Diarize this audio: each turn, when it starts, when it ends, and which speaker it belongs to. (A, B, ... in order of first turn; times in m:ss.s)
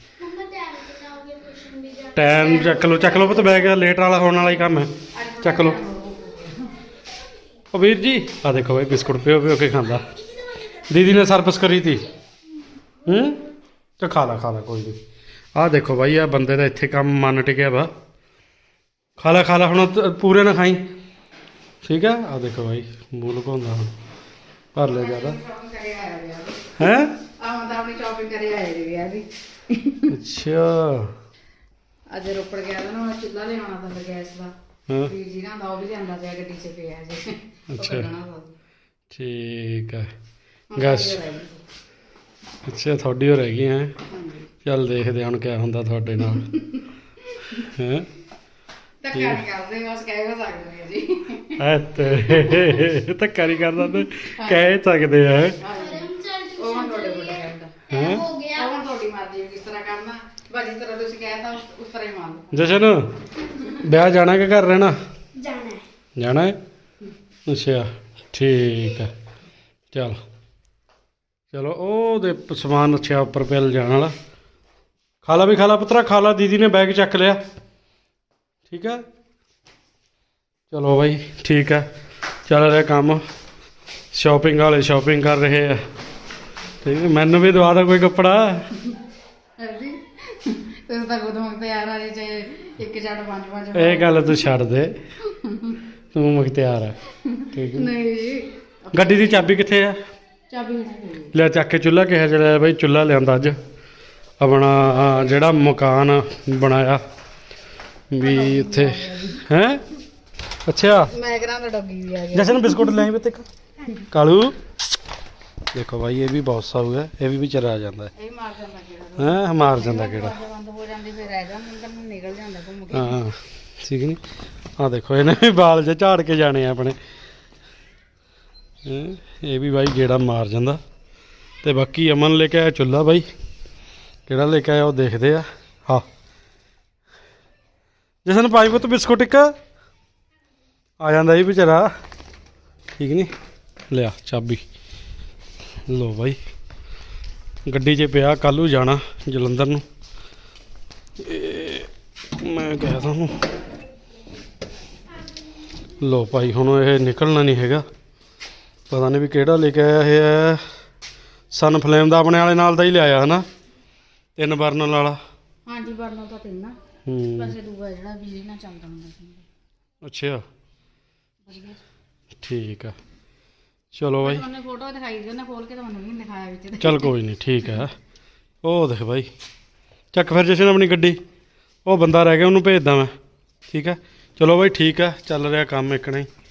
0:00.2-0:03.8 A
0:02.1-0:04.9 B
0:05.1-0:06.7 C
0:05.4-0:05.8 B
0:07.7-0:10.0 B
0:10.9-0:12.0 B
0:13.0-0:13.4 B
0:14.0-0:15.0 B
0:15.6-0:17.9 B
0:19.2-0:20.8 B
0:21.8-0:23.9 B
0:24.7-0:25.4 B
0:24.8-0:26.7 C
0:26.8-0:27.1 B
0:27.4-0:30.1 C
0:30.1-0:31.1 B
0:32.1-0:38.6 C
0:37.7-0:38.1 B
0:39.1-0:40.1 B
0:40.7-0:41.6 C
0:40.8-0:41.2 B
0:42.6-0:43.9 B
0:44.1-0:44.5 C
0:44.6-0:46.5 B
0:46.2-0:47.7 C
0:47.7-0:48.1 B
0:49.0-0:52.8 C
0:49.1-0:49.4 B
0:51.6-0:55.6 B
0:54.4-0:54.8 C
0:55.6-0:57.8 C
0:55.7-0:58.7 A
0:57.9-0:58.2 B
0:58.5-1:02.8 C
1:02.5-1:03.0 B
1:03.8-1:05.0 B
1:05.4-1:05.8 A
1:06.2-1:06.6 B
1:07.5-1:09.1 B
1:09.9-1:10.2 B
1:11.5-1:14.1 B
1:15.2-1:17.4 B
1:18.7-1:19.0 B
1:20.7-1:21.8 B
1:22.4-1:23.2 B
1:24.1-1:25.8 B
1:26.8-1:28.7 B
1:29.6-1:34.5 C
1:33.7-1:35.0 B
1:35.3-1:35.8 C
1:36.1-1:37.0 B
1:37.2-1:39.5 C
1:37.5-1:37.9 B
1:38.9-1:40.0 B
1:40.5-1:41.3 C
1:41.3-1:43.6 B
1:44.4-1:47.0 B
1:48.1-1:49.8 B
1:48.2-1:49.4 C
1:50.7-1:51.1 B
1:51.0-1:53.0 C
1:52.3-1:53.5 B
1:54.1-1:54.6 B
1:55.7-1:58.1 B
1:58.1-2:03.2 C
1:59.2-2:00.4 B
2:02.9-2:04.2 B
2:04.8-2:07.0 B
2:08.8-2:10.8 B
2:11.6-2:13.3 B
2:14.3-2:16.0 B
2:18.2-2:19.5 B
2:21.0-2:21.9 B
2:23.0-2:23.3 B
2:23.9-2:24.6 B
2:25.9-2:26.4 B
2:27.6-2:29.8 B
2:31.2-2:33.5 B
2:36.0-2:37.8 B
2:38.9-2:40.6 B
2:41.5-2:43.4 B
2:44.4-2:45.2 B
2:45.6-2:46.8 C
2:47.0-2:47.5 B
2:47.4-2:49.4 C
2:50.0-2:50.4 B
2:51.4-2:51.8 C
2:52.4-2:52.9 B
2:53.9-2:54.4 B
2:54.2-2:57.1 C
2:56.8-2:57.9 B
2:58.6-2:59.3 B
3:00.1-3:01.2 B
3:01.8-3:03.1 B
3:03.7-3:06.3 B